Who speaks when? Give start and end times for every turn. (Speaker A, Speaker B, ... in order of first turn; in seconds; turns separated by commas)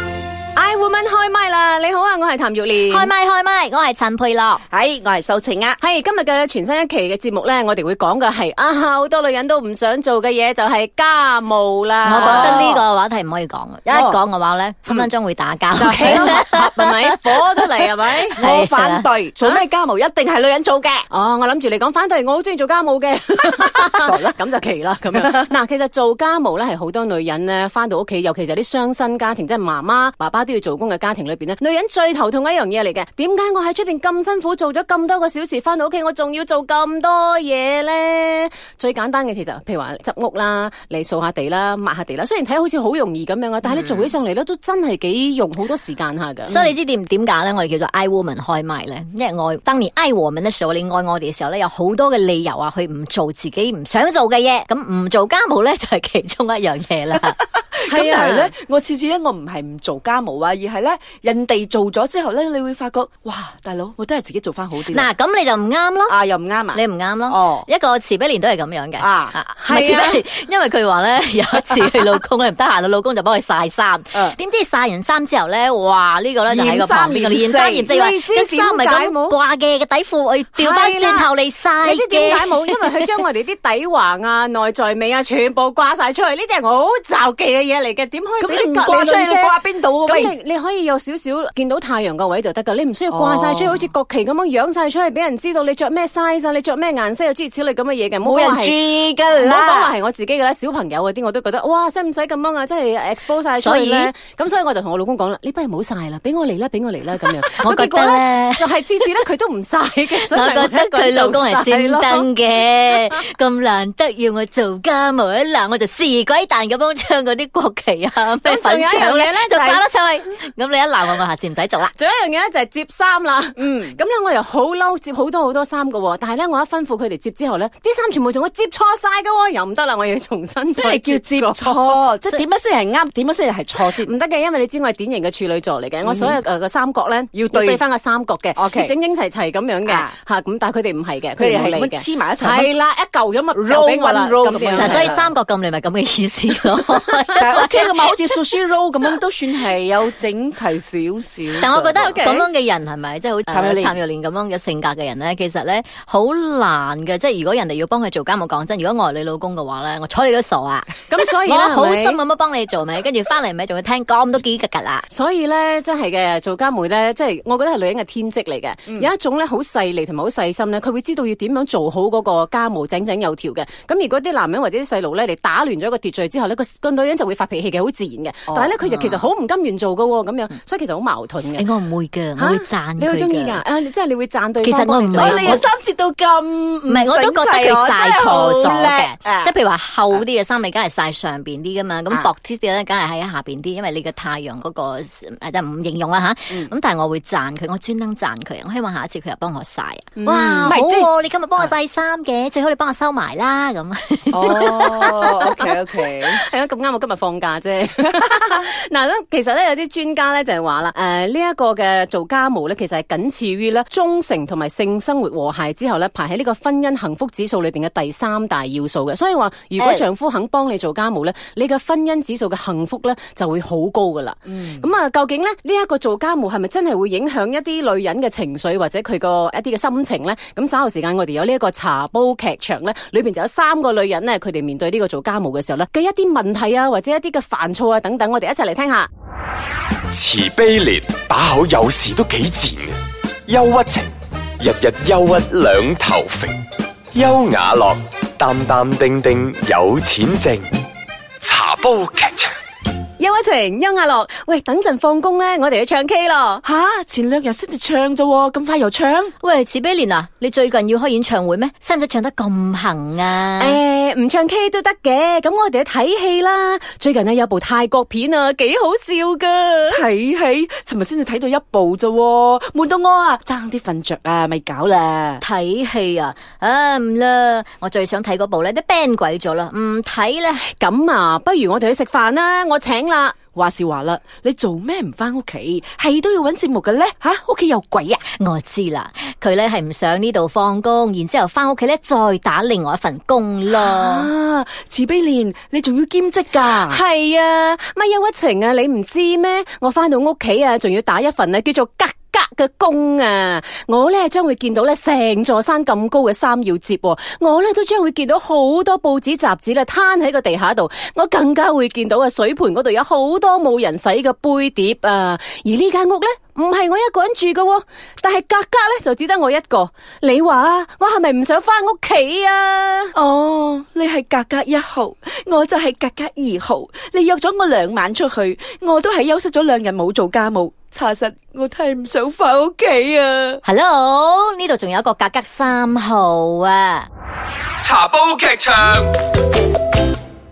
Speaker A: 0.6-3.1, Speaker B: 2.8-4.6, Speaker C: 4.7-5.8, Speaker A: 5.8-12.7, Speaker B: 12.0-17.1, Speaker C: 12.1-12.8, Speaker C: 13.9-14.2, Speaker A: 15.7-18.4, Speaker C: 18.3-21.1, Speaker B: 18.4-19.1, Speaker A: 21.1-46.6, Speaker C: 23.8-24.3, Speaker C: 25.1-25.5, Speaker B: 43.7-44.1, Speaker B: 46.5-57.4, Speaker C: 57.4-65.1, Speaker A: 57.9-58.5, Speaker B: 64.9-66.2, Speaker C: 66.1-67.7, Speaker B: 66.7-83.0, Speaker C: 69.0-69.3, Speaker A: 69.6-70.2, Speaker C: 76.5-77.9, Speaker A: 77.9-79.4, Speaker A: 80.5-81.3, Speaker A: 81.8-89.5, Speaker C: 88.4-90.3, Speaker A: 90.0-98.8, Speaker C: 93.1-93.8, Speaker C: 98.2-99.9, Speaker A: 99.4-112.3, Speaker B: 103.5-104.1, Speaker B: 107.5-108.7, Speaker B: 110.2-121.9, Speaker A: 118.4-119.8, Speaker A: 121.9-132.4, Speaker C: 123.6-124.0, Speaker C: 130.8-134.1, Speaker A: 133.9-145.2, Speaker C: 136.0-136.4, Speaker C: 137.3-137.8, Speaker C: 138.5-138.9, Speaker C: 139.8-140.1, Speaker C: 141.4-142.7, Speaker C: 143.5-145.3, Speaker B: 144.7-148.3, Speaker C: 147.3-152.1, Speaker B: 151.6-165.1, Speaker A: 152.0-152.5, Speaker C: 153.5-153.9, Speaker A: 161.1-162.2, Speaker A: 165.1-181.7, Speaker C: 178.5-178.7, Speaker B: 178.8-179.2, Speaker B: 181.5-183.6, Speaker A: 182.4-185.7, Speaker B: 184.6-185.7, Speaker C: 185.1-189.5, Speaker B: 186.9-204.5, Speaker A: 200.2-200.8, Speaker C: 200.6-201.1, Speaker C: 204.3-206.4, Speaker A: 204.4-239.1, Speaker C: 219.8-220.0, Speaker C: 224.5-224.8, Speaker D: 240.1-242.9, Speaker D: 243.5-246.6, Speaker D: 247.1-250.7, Speaker D: 251.4-252.5, Speaker A: 253.2-256.6, Speaker C: 256.6-259.3, Speaker B: 259.4-263.8, Speaker A: 263.6-270.0, Speaker C: 269.9-275.4, Speaker B: 275.4-280.6, Speaker A: 280.7-283.4, Speaker C: 283.5-288.2, Speaker B: 288.4-294.3, Speaker C: 293.7-297.0, Speaker A: 296.7-323.1, Speaker C: 323.1-333.6, Speaker B: 333.6-337.1, Speaker D: 337.8-339.1